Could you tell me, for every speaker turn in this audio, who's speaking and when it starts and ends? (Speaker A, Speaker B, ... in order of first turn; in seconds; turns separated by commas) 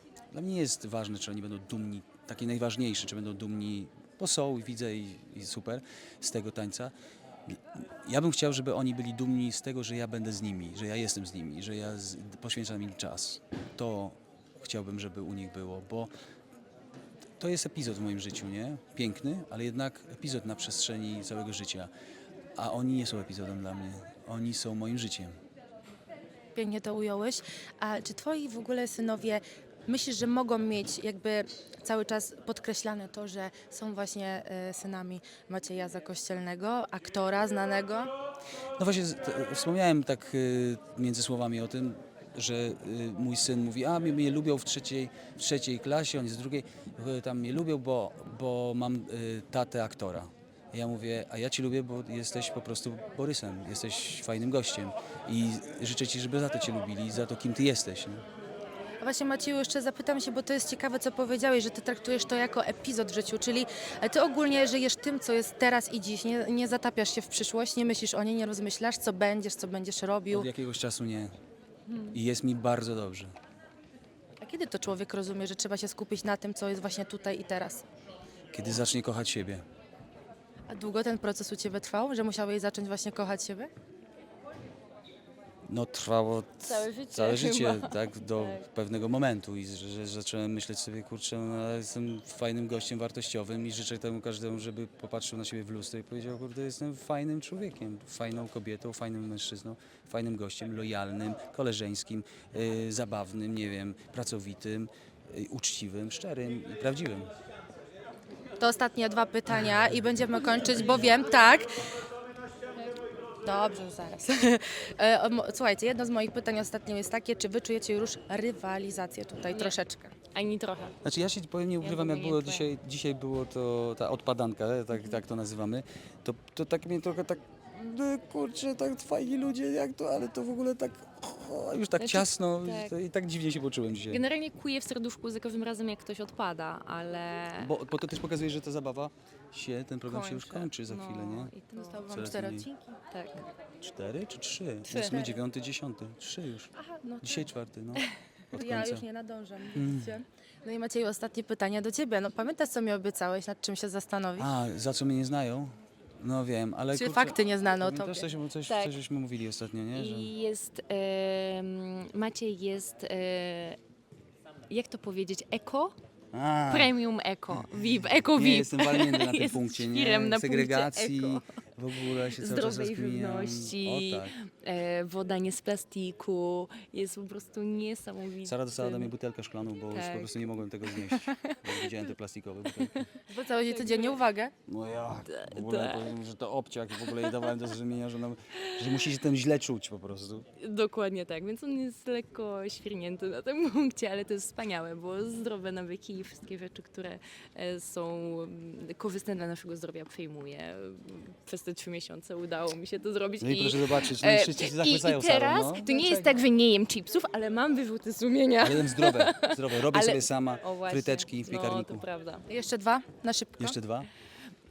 Speaker A: 0.3-6.9, Speaker A: 7.5-16.1, Speaker A: 17.4-21.9, Speaker A: 22.6-25.4, Speaker B: 26.5-38.1, Speaker A: 38.8-58.2, Speaker B: 59.0-70.5, Speaker A: 70.3-71.3, Speaker A: 72.1-73.3, Speaker B: 74.4-77.8, Speaker A: 78.5-79.6, Speaker B: 80.7-83.7, Speaker A: 85.7-107.3, Speaker C: 86.7-88.6, Speaker B: 108.6-111.7, Speaker B: 113.4-120.1, Speaker C: 119.5-119.8, Speaker C: 120.3-121.0, Speaker A: 121.0-134.2, Speaker C: 121.8-122.7, Speaker C: 132.0-132.9, Speaker C: 134.1-137.7, Speaker A: 137.6-141.5, Speaker B: 140.1-140.7, Speaker C: 140.3-142.1, Speaker B: 141.7-143.0, Speaker A: 142.1-142.7, Speaker C: 143.1-143.4, Speaker A: 143.8-146.7, Speaker B: 144.9-145.3, Speaker B: 146.9-147.5, Speaker A: 147.2-149.0, Speaker B: 148.5-154.5, Speaker A: 149.7-150.2, Speaker A: 154.4-160.3, Speaker B: 156.9-158.3, Speaker C: 158.6-158.9, Speaker C: 159.9-163.8, Speaker C: 164.7-165.9, Speaker A: 166.3-166.9, Speaker C: 166.7-171.4, Speaker A: 168.3-174.3, Speaker C: 172.1-179.1, Speaker A: 178.4-183.1, Speaker C: 179.9-181.6, Speaker B: 183.2-184.5, Speaker C: 183.5-184.2, Speaker A: 184.7-190.4, Speaker C: 185.3-186.2, Speaker C: 187.0-187.6, Speaker C: 188.6-189.1, Speaker C: 190.6-212.4, Speaker A: 203.4-205.9, Speaker B: 205.8-206.3, Speaker A: 208.6-212.1, Speaker B: 212.5-213.8, Speaker A: 213.6-214.1